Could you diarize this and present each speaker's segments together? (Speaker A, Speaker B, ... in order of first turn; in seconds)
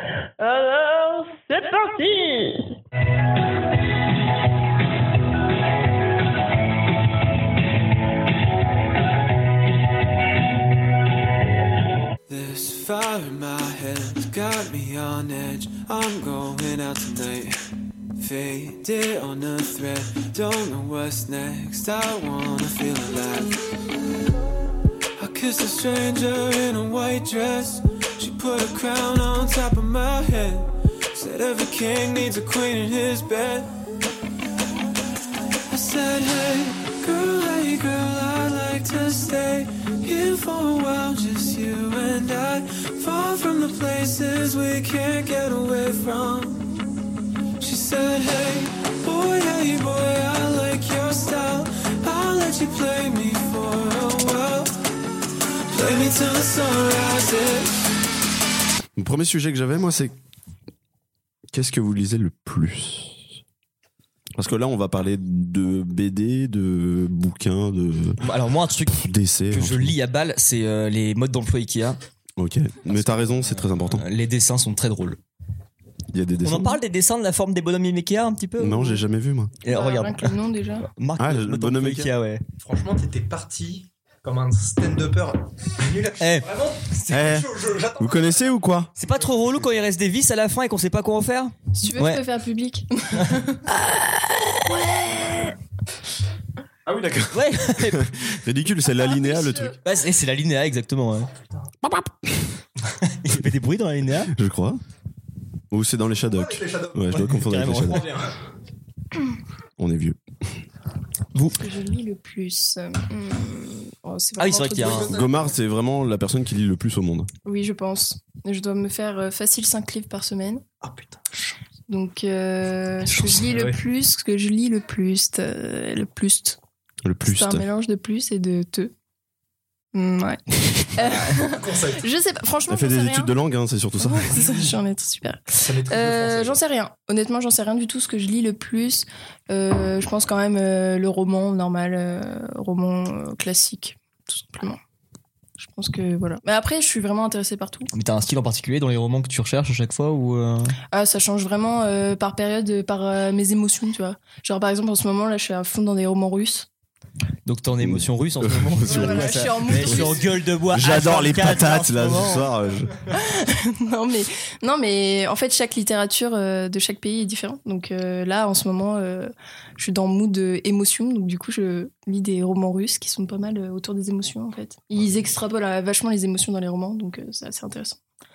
Speaker A: 0.4-2.7
Speaker B: 12.3-17.6, 18.1-23.6, 25.2-33.7, 35.7-46.9, 47.6-54.7, 55.7-57.8
Speaker C: 59.0-60.1, 61.5-63.3, 64.3-68.2, 69.0-69.9, 72.4-74.0, 76.1-76.8, 78.6-79.5, 81.2-82.1, 87.1-88.9, 96.8-99.8, 104.3-104.8, 105.7-108.1, 109.8-110.2, 115.1-117.3, 127.0-127.7, 132.7-134.3, 157.8-160.2, 160.7-163.0
Speaker D: 68.2-72.0, 72.9-75.2, 76.4-79.0, 79.6-80.4, 80.9-82.4, 86.2-86.5, 89.0-92.2, 93.7-95.5, 97.3-98.1, 99.8-101.3, 103.1-104.3, 107.1-108.2, 114.4-115.1, 147.9-150.8, 157.4-162.4
Speaker E: 79.7-80.9, 91.8-93.6, 98.9-99.8, 111.6-115.3, 117.4-120.6, 121.9-126.6, 127.2-128.9, 129.9-133.3, 134.0-144.8, 145.6-147.9, 150.9-156.7, 158.8-160.3, 163.1-178.0
Speaker F: 82.6-88.5, 106.2-108.3, 114.8-115.5, 120.8-121.5, 123.3-123.8, 131.0-132.0, 134.3-134.8, 135.6-136.6